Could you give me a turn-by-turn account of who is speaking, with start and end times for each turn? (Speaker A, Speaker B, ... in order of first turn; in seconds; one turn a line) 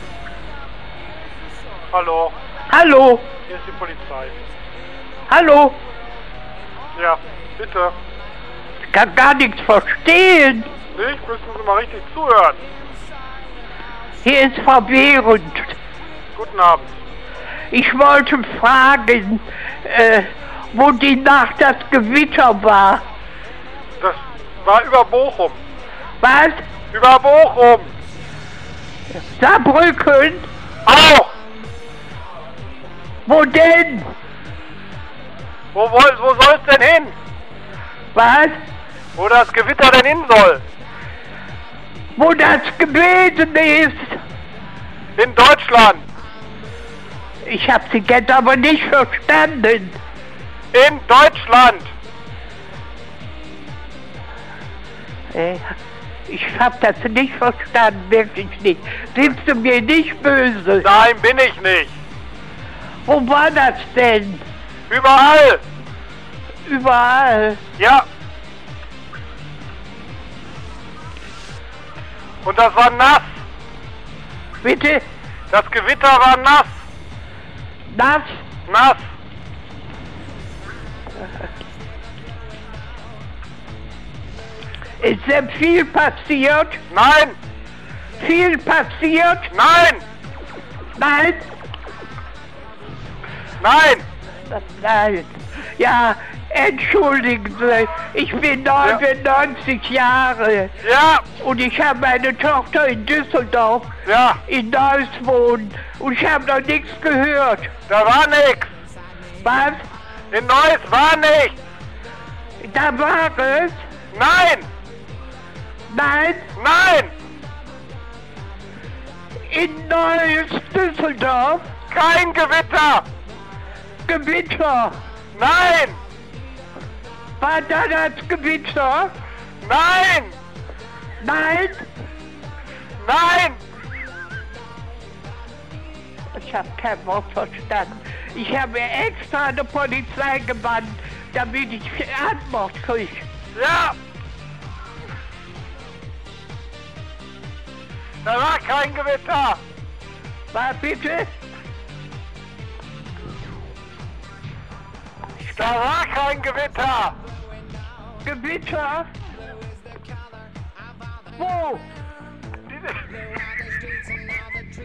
Speaker A: 1.9-2.3
Speaker B: 2.7-3.3
Speaker A: 3.5-4.3
Speaker B: 5.3-5.8
Speaker A: 7.0-7.9
Speaker B: 8.9-10.7
Speaker A: 10.9-12.6
Speaker B: 14.2-15.8
Speaker A: 16.4-16.9
Speaker B: 17.7-23.0
Speaker A: 24.0-25.6
Speaker B: 26.2-26.6
Speaker A: 26.9-27.9
Speaker B: 29.1-30.5
Speaker A: 30.8-31.3
Speaker B: 33.2-34.1
Speaker A: 35.7-37.1
Speaker B: 38.1-38.5
Speaker A: 39.1-40.6
Speaker B: 42.2-44.2
Speaker A: 45.1-46.0
Speaker B: 47.5-50.0
Speaker A: 50.7-51.9
Speaker B: 55.3-55.8
Speaker B: 56.3-60.9
Speaker A: 60.8-61.9
Speaker B: 63.0-64.4
Speaker A: 64.9-65.6
Speaker B: 66.7-67.6
Speaker A: 67.8-68.0
Speaker A: 72.4-73.3
Speaker B: 74.6-75.0
Speaker A: 75.5-76.7
Speaker B: 77.9-78.4
Speaker A: 78.7-79.0
Speaker B: 85.0-86.8
Speaker A: 86.9-87.3
Speaker B: 88.2-89.5
Speaker A: 89.5-90.0
Speaker B: 91.0-91.4
Speaker A: 93.6-94.0
Speaker B: 94.5-100.7
Speaker A: 100.8-101.2
Speaker B: 101.4-103.9
Speaker A: 104.0-104.4
Speaker B: 104.5-107.7
Speaker A: 107.9-108.7
Speaker B: 109.4-109.8
Speaker A: 110.3-111.6
Speaker B: 112.6-113.8
Speaker A: 114.1-114.7
Speaker B: 115.9-116.5
Speaker A: 116.5-117.1
Speaker B: 119.5-121.7
Speaker A: 121.9-123.0
Speaker B: 124.1-124.9
Speaker A: 125.3-126.0
Speaker B: 127.4-129.1
Speaker A: 129.6-130.3
Speaker B: 131.2-131.8
Speaker A: 133.0-133.6
Speaker B: 136.3-143.2
Speaker A: 143.5-143.9
Speaker A: 148.2-149.6
Speaker B: 150.5-151.3
Speaker A: 155.4-157.2
Speaker B: 158.2-159.1
Speaker B: 161.3-161.8